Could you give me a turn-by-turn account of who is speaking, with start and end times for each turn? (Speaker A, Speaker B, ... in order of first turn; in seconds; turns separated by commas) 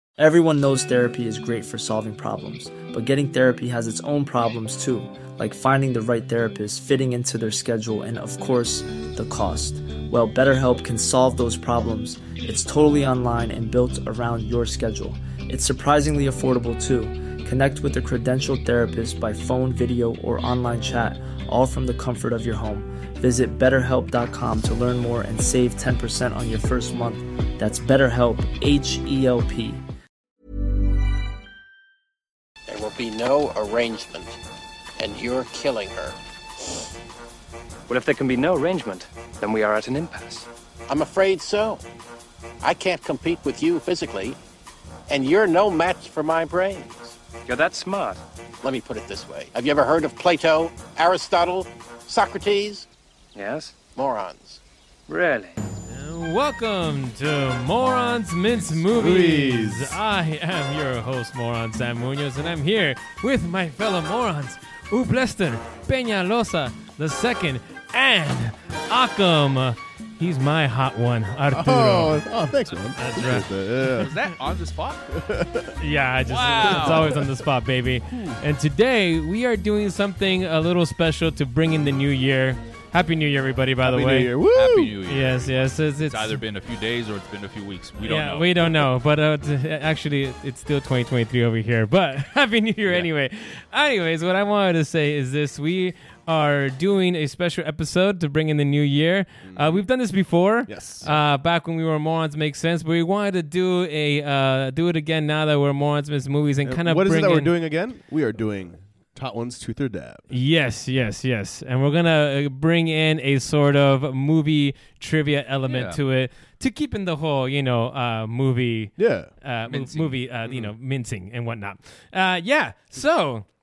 Speaker A: 0.2-29.8, Speaker B: 32.7-34.4, Speaker B: 35.0-36.2, Speaker C: 37.9-40.5, Speaker B: 40.9-41.8, Speaker B: 42.6-44.4, Speaker B: 45.1-47.1, Speaker C: 47.5-48.2, Speaker B: 48.6-52.9, Speaker C: 53.3-53.8, Speaker B: 53.9-54.6, Speaker C: 55.1-55.6, Speaker D: 55.9-72.3, Speaker E: 58.8-60.0, Speaker E: 71.5-74.1, Speaker D: 73.0-73.5, Speaker F: 73.9-75.1, Speaker E: 75.1-75.7, Speaker D: 75.8-84.3, Speaker F: 76.3-77.2, Speaker E: 78.1-78.4, Speaker E: 83.8-84.9, Speaker F: 84.5-88.7, Speaker D: 85.1-86.4, Speaker D: 88.0-107.5, Speaker E: 99.4-99.8, Speaker E: 100.7-101.1, Speaker E: 106.6-110.2, Speaker D: 110.3-123.5, Speaker F: 115.7-116.0, Speaker E: 119.0-119.3, Speaker F: 119.7-120.2